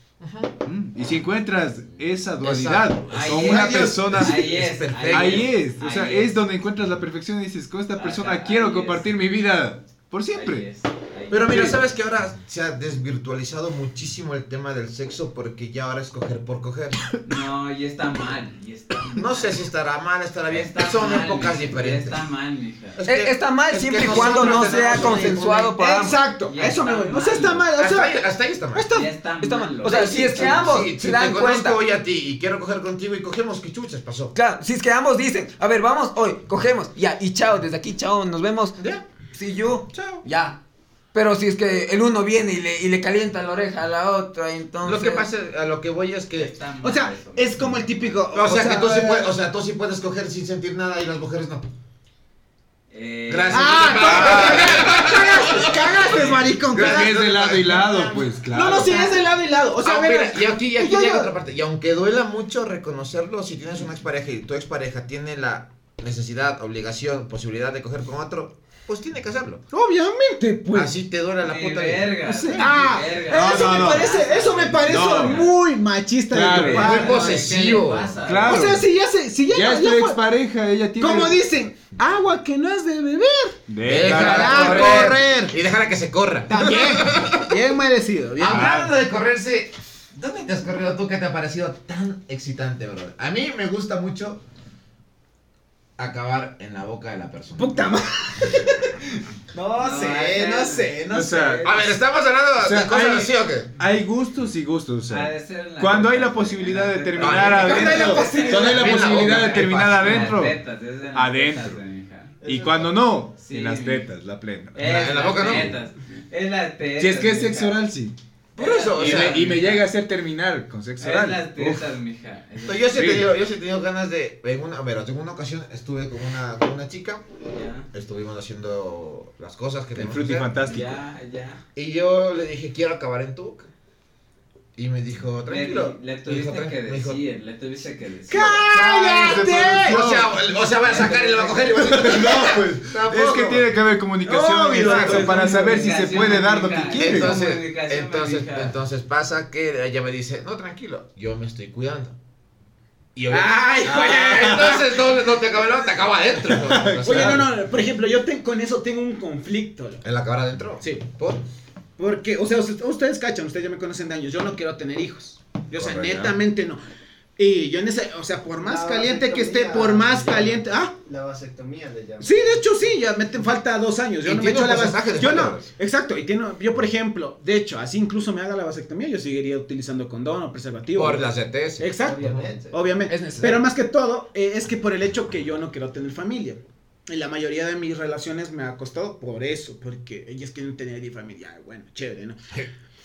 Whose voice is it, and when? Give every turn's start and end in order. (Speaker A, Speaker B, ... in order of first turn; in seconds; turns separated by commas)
Speaker A: 0.2-0.5, Speaker B: 0.6-10.7, Speaker A: 2.4-5.5, Speaker C: 3.0-6.4, Speaker C: 8.0-9.1, Speaker C: 10.3-11.8, Speaker A: 11.3-17.0, Speaker C: 17.2-19.6, Speaker A: 19.1-22.2, Speaker C: 20.5-23.0, Speaker A: 23.0-25.6, Speaker D: 23.1-26.2, Speaker E: 24.0-28.1, Speaker C: 26.5-27.7, Speaker A: 27.7-28.9, Speaker E: 28.7-29.1, Speaker C: 28.9-30.2, Speaker D: 29.4-31.8, Speaker A: 29.8-34.3, Speaker D: 34.3-38.8, Speaker A: 38.8-39.0, Speaker D: 39.3-40.6, Speaker A: 39.9-40.2, Speaker D: 41.1-45.3, Speaker A: 44.8-46.5, Speaker C: 46.4-48.1, Speaker E: 46.8-49.3, Speaker A: 48.3-51.7, Speaker C: 52.9-54.8, Speaker A: 53.3-58.2, Speaker E: 53.5-57.3, Speaker B: 54.0-54.6, Speaker C: 56.0-56.3, Speaker B: 56.7-59.1, Speaker F: 57.4-58.3, Speaker E: 58.5-61.3, Speaker A: 59.8-69.6, Speaker E: 69.7-70.9, Speaker A: 70.7-72.7, Speaker C: 71.4-75.5, Speaker E: 72.2-77.8, Speaker B: 73.3-74.1, Speaker B: 74.8-75.5, Speaker B: 76.3-77.1, Speaker C: 76.5-78.7, Speaker A: 76.7-78.2, Speaker B: 78.2-78.8, Speaker E: 78.4-80.2, Speaker B: 79.5-81.4, Speaker E: 81.0-85.5, Speaker B: 83.7-85.1, Speaker A: 83.8-87.5, Speaker E: 86.5-88.9, Speaker A: 88.4-94.4, Speaker B: 88.4-88.8, Speaker A: 96.0-97.8, Speaker E: 97.6-101.9, Speaker C: 99.7-101.0, Speaker B: 101.1-101.7, Speaker A: 101.6-103.7, Speaker B: 102.6-110.6, Speaker C: 105.1-112.4, Speaker A: 107.2-110.5, Speaker E: 107.6-109.2, Speaker B: 111.1-111.8, Speaker F: 112.4-113.2, Speaker B: 112.4-114.8, Speaker C: 113.3-114.1, Speaker C: 114.7-117.8, Speaker A: 114.8-115.8, Speaker B: 117.0-118.2, Speaker C: 118.5-119.9, Speaker A: 118.6-119.5, Speaker B: 118.9-121.8, Speaker C: 121.0-123.0, Speaker A: 122.6-127.2, Speaker B: 122.9-123.3, Speaker C: 127.5-127.9, Speaker A: 127.9-130.6, Speaker B: 129.9-130.9, Speaker C: 130.7-131.6, Speaker A: 131.8-133.7, Speaker A: 134.8-137.2, Speaker C: 135.5-138.6, Speaker E: 138.3-140.1, Speaker A: 138.4-143.7, Speaker B: 138.6-147.4, Speaker E: 144.2-146.2, Speaker A: 144.7-145.4, Speaker C: 145.4-148.7, Speaker A: 146.9-152.2, Speaker A: 153.1-157.5, Speaker E: 153.3-155.1, Speaker B: 153.8-154.8, Speaker B: 156.5-157.5, Speaker E: 157.0-160.0, Speaker A: 160.0-161.4, Speaker E: 162.0-166.8, Speaker A: 165.7-166.4, Speaker E: 167.4-170.9, Speaker F: 168.6-172.4, Speaker E: 172.2-181.3, Speaker A: 174.2-175.7, Speaker A: 180.9-182.5, Speaker E: 181.8-192.4, Speaker F: 182.0-182.8, Speaker D: 183.1-183.6